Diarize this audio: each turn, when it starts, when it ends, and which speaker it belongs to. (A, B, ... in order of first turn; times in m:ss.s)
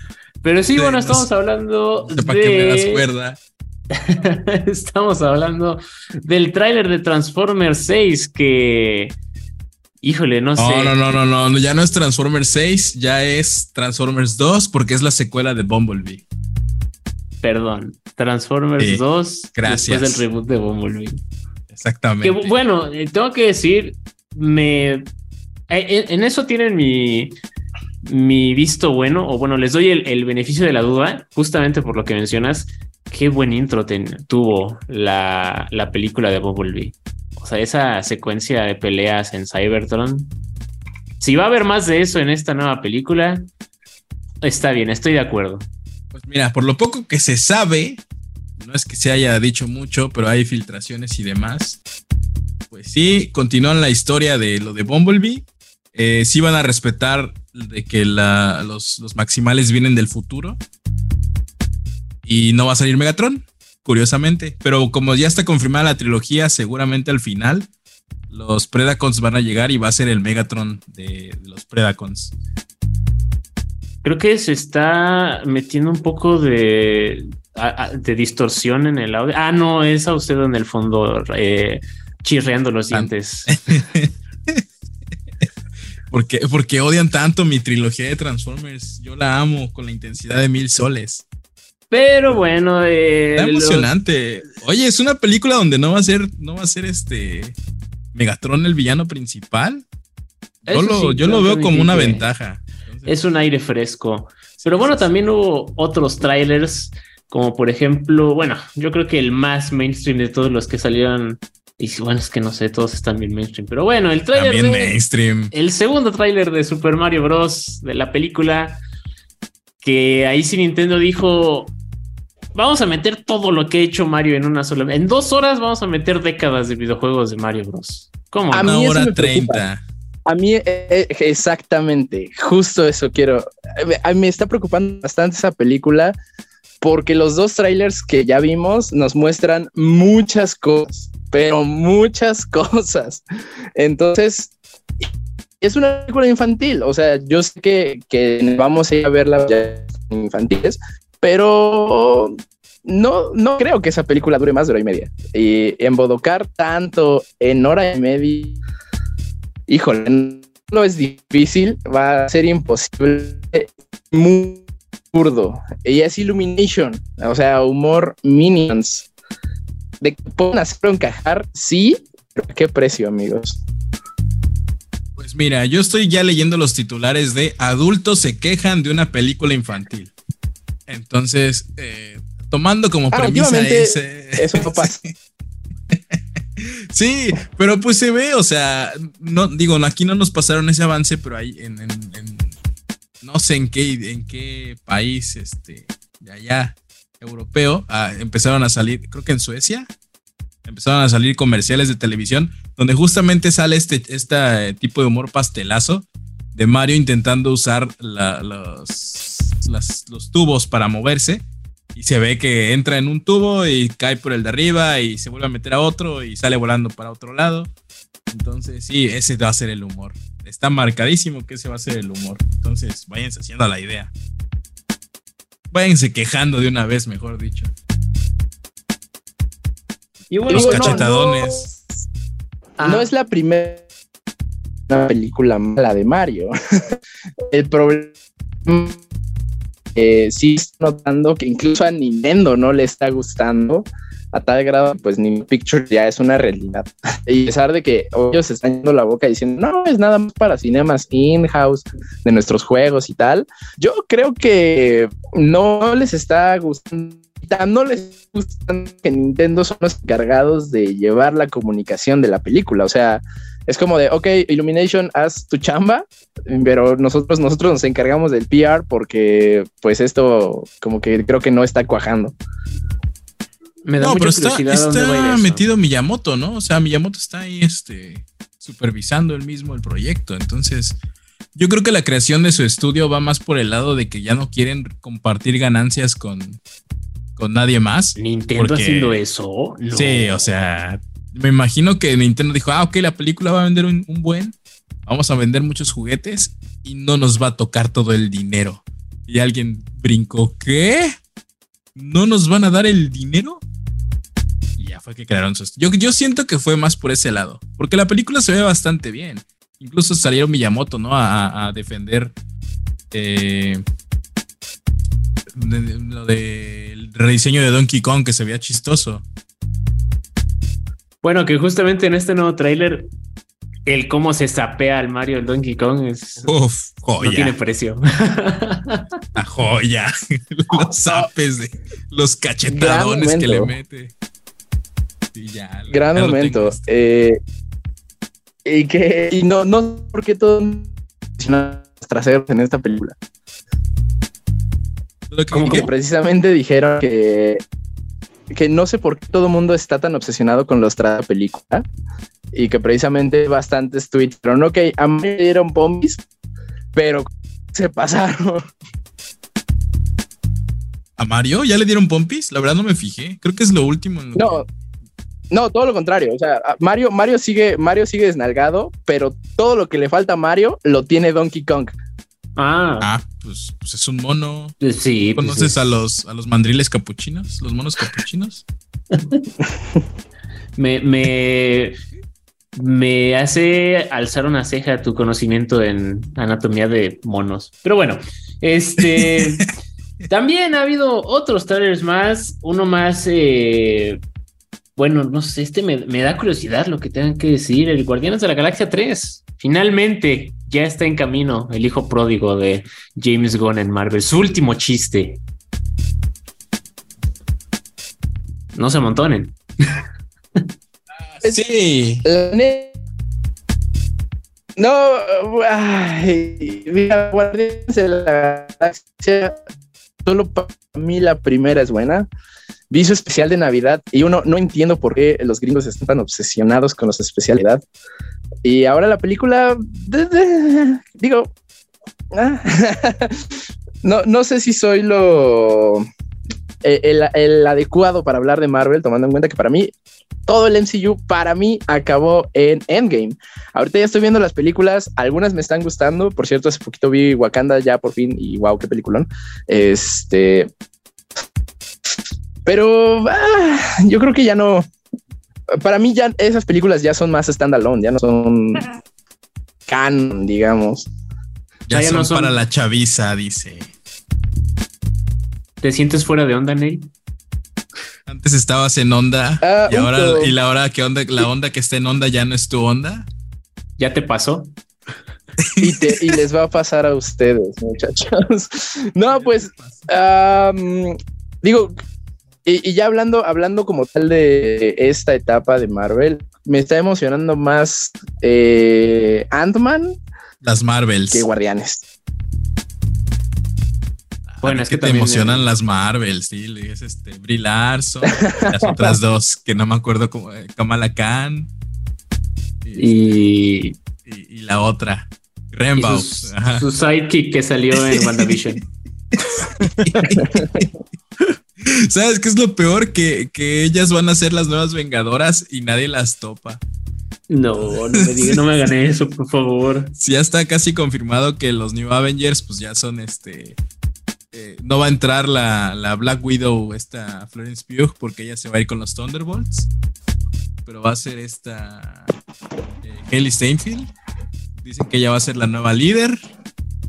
0:00.4-0:03.0 A
0:00.7-0:01.3 B
0:02.0-0:03.4 B
0:03.9-0:09.2 A
0:10.0-0:11.1 A
0:10.6-0:16.2 B
0:17.4-0:21.2 A
0:19.5-0:20.2 B
0:21.7-0:22.5 B
0:22.2-0:25.1 A
0:25.7-0:27.3 A
0:28.0-0:40.3 A
0:41.2-0:43.4 A
0:44.4-0:45.6 A
0:46.1-0:48.0 B
0:48.6-0:51.8 B
0:52.7-1:00.6 B
1:02.2-1:07.7 B
1:08.3-1:12.3 B
1:14.0-1:23.6 A
1:22.9-1:24.6 B
1:26.1-1:31.2 B
1:31.9-1:33.9 A
1:33.4-1:37.5 B
1:38.1-1:39.8 B
1:40.6-1:43.1 B
1:40.7-1:42.3 A
1:43.0-1:55.0 A
1:44.6-1:45.1 B
1:54.3-1:55.5 B
1:55.5-1:58.8 A
1:59.8-2:01.7 A
2:02.5-2:08.8 A
2:08.5-2:09.6 C
2:08.6-2:09.8 B
2:10.3-2:16.2 C
2:16.8-2:23.2 C
2:23.8-2:24.5 C
2:25.6-2:38.6 C
2:39.7-2:49.1 C
2:50.0-2:53.6 C
2:55.2-3:00.1 B
3:00.9-3:05.1 B
3:03.1-3:05.0 C
3:05.9-3:12.5 B
3:13.2-3:19.9 B
3:20.6-3:37.7 B
3:38.3-3:44.1 B
3:45.7-3:47.7 B
3:50.3-3:51.5 A
3:50.5-3:51.7 B
3:50.5-3:51.1 C
3:52.8-3:53.1 A
3:52.8-3:53.8 C
3:54.9-3:56.5 C
3:57.5-3:58.1 C
3:58.6-3:59.0 C
3:59.9-4:32.4 C
4:33.8-4:35.6 A
4:34.0-4:41.0 B
4:41.5-4:46.6 B
4:47.4-4:49.2 B
4:48.2-4:50.4 A
4:49.9-4:54.5 B
4:55.0-5:01.2 B
5:01.9-5:03.6 B
5:04.8-5:12.3 B
5:13.1-5:13.8 B
5:15.5-5:19.2 B
5:21.2-5:23.1 A
5:23.8-5:26.5 A
5:26.4-5:27.5 B
5:27.2-5:29.0 A
5:29.4-5:34.1 B
5:32.6-5:33.7 C
5:35.3-5:36.8 B
5:35.9-5:37.4 C
5:38.6-5:43.2 C
5:45.3-5:45.9 B
5:45.5-5:47.6 C
5:45.6-5:45.9 A
5:48.5-5:51.8 C
5:52.5-5:56.2 C
5:56.9-5:58.6 C
6:01.2-6:04.6 B
6:04.4-6:04.7 C
6:05.5-6:12.0 C
6:12.6-6:13.1 A
6:13.0-6:14.7 B
6:14.8-6:16.0 A
6:15.3-6:18.6 B
6:19.1-6:19.4 A
6:20.8-6:22.0 A
6:22.7-6:29.6 A
6:29.0-6:29.7 B
6:30.3-6:34.2 A
6:35.0-6:45.4 A
6:48.7-6:50.0 A
6:51.3-6:52.2 B
6:52.2-6:52.9 C
6:54.8-6:59.6 C
7:00.2-7:02.3 C
7:02.9-7:07.8 C
7:08.6-7:11.5 C
7:12.3-7:16.1 C
7:16.8-7:19.9 C
7:20.5-7:30.7 C
7:32.6-7:34.9 C
7:35.8-7:38.8 C
7:39.9-7:41.1 C
7:41.9-7:43.9 B
7:41.9-7:42.6 A
7:45.8-7:47.1 A
7:48.2-7:53.3 B
7:49.6-7:50.6 C
7:54.0-7:54.7 A
7:55.6-7:56.3 B
7:55.8-8:02.0 C
7:59.3-8:00.1 B
8:02.6-8:10.2 C
8:10.6-8:11.5 B
8:11.3-8:12.0 C
8:14.5-8:21.7 B
8:14.6-8:15.6 A
8:18.2-8:19.2 C
8:22.8-8:23.3 B
8:23.0-8:24.0 A
8:24.2-8:26.9 B
8:26.0-8:28.8 A
8:27.9-8:28.6 B
8:29.3-8:36.8 B
8:30.5-8:30.8 C
8:37.5-8:40.1 A
8:38.1-8:38.6 B
8:40.2-8:43.8 B
8:44.5-8:49.9 B
8:50.8-8:52.3 B
8:53.0-8:54.1 B
8:54.8-8:56.4 B